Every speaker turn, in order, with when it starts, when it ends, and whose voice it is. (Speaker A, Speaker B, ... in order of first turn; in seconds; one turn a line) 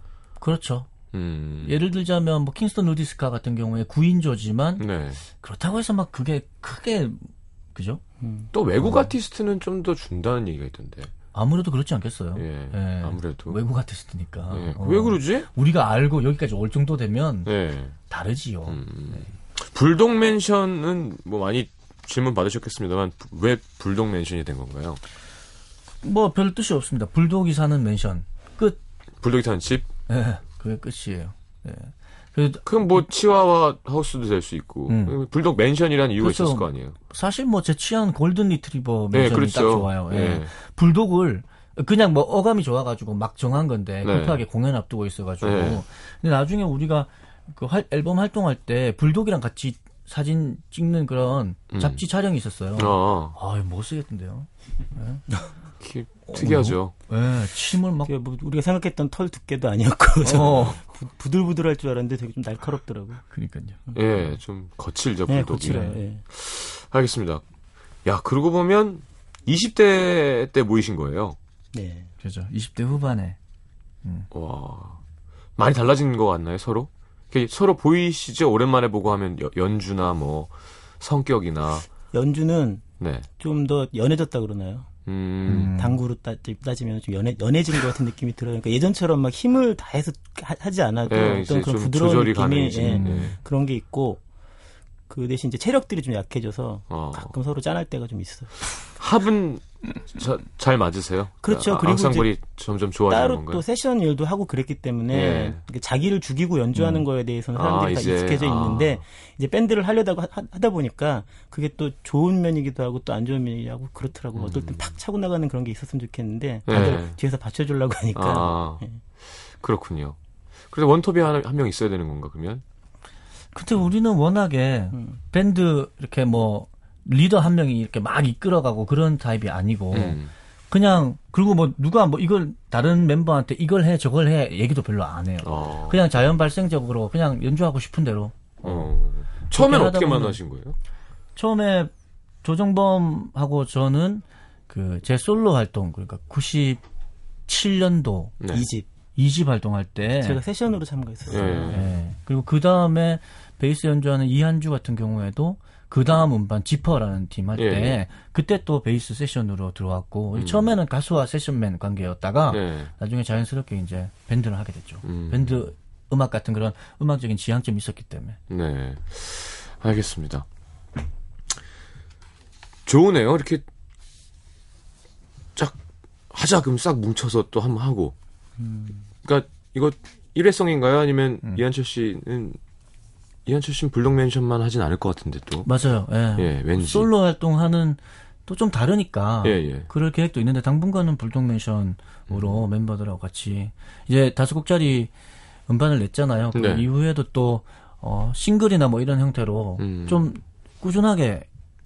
Speaker A: 0.4-1.0
Speaker B: 1.1-1.8
Speaker A: 1.6-8.0
Speaker B: 4.8-5.2
Speaker C: 8.2-8.5
Speaker B: 8.5-11.1
Speaker A: 8.8-9.1
Speaker A: 11.3-17.5
Speaker B: 12.3-13.6
Speaker B: 14.5-15.5
Speaker B: 17.4-17.9
Speaker A: 18.1-19.2
Speaker B: 18.7-25.0
Speaker A: 26.0-28.8
Speaker B: 29.2-29.9
Speaker A: 30.1-33.0
Speaker B: 32.6-37.0
Speaker A: 34.9-35.2
Speaker A: 36.2-55.3
Speaker B: 39.1-40.5
Speaker B: 44.0-44.4
Speaker B: 45.4-45.8
Speaker B: 51.7-52.0
Speaker B: 52.8-53.4
Speaker B: 55.8-56.9
Speaker A: 56.3-58.1
Speaker C: 58.0-63.2
Speaker A: 60.2-60.8
Speaker A: 63.3-63.8
Speaker B: 63.9-67.4
Speaker C: 65.3-66.2
Speaker A: 65.6-66.0
Speaker B: 68.0-71.4
Speaker C: 71.7-72.1
Speaker A: 72.2-73.4
Speaker A: 74.0-74.3
Speaker B: 74.3-75.0
Speaker B: 75.6-81.9
Speaker C: 82.1-82.8
Speaker B: 83.0-83.3
Speaker C: 83.4-84.9
Speaker B: 85.0-85.7
Speaker A: 85.5-86.0
Speaker C: 85.7-94.2
Speaker B: 91.1-93.3
Speaker A: 92.8-93.3
Speaker C: 95.1-98.7
Speaker B: 96.9-97.3
Speaker B: 99.0-103.6
Speaker C: 101.4-102.3
Speaker C: 103.1-119.0
Speaker B: 105.1-105.6
Speaker B: 107.5-109.0
Speaker B: 114.3-114.9
Speaker B: 116.7-117.2
Speaker B: 118.1-120.2
Speaker B: 120.7-122.6
Speaker A: 123.5-130.2
Speaker C: 124.9-125.2
Speaker B: 129.9-130.3
Speaker A: 130.7-138.9
Speaker B: 135.4-136.0
Speaker B: 138.6-140.8
Speaker A: 139.5-140.4
Speaker A: 141.3-141.9
Speaker A: 142.4-146.8
Speaker A: 147.5-148.4
Speaker B: 148.4-148.7
Speaker C: 148.5-148.9
Speaker A: 149.1-150.4
Speaker C: 150.2-151.7
Speaker B: 151.3-151.9
Speaker A: 151.6-168.4
Speaker B: 157.6-158.0
Speaker B: 160.3-160.7
Speaker B: 162.5-162.9
Speaker B: 165.0-165.6
Speaker B: 168.5-170.4
Speaker B: 172.8-173.6
Speaker B: 176.3-178.1
Speaker C: 178.6-179.0
Speaker B: 179.2-182.6
Speaker B: 183.4-185.7
Speaker A: 185.6-195.1
Speaker B: 186.3-187.1
Speaker B: 189.4-189.9
Speaker B: 192.3-192.6
Speaker A: 195.7-201.5
Speaker B: 196.5-196.8
Speaker B: 199.8-200.2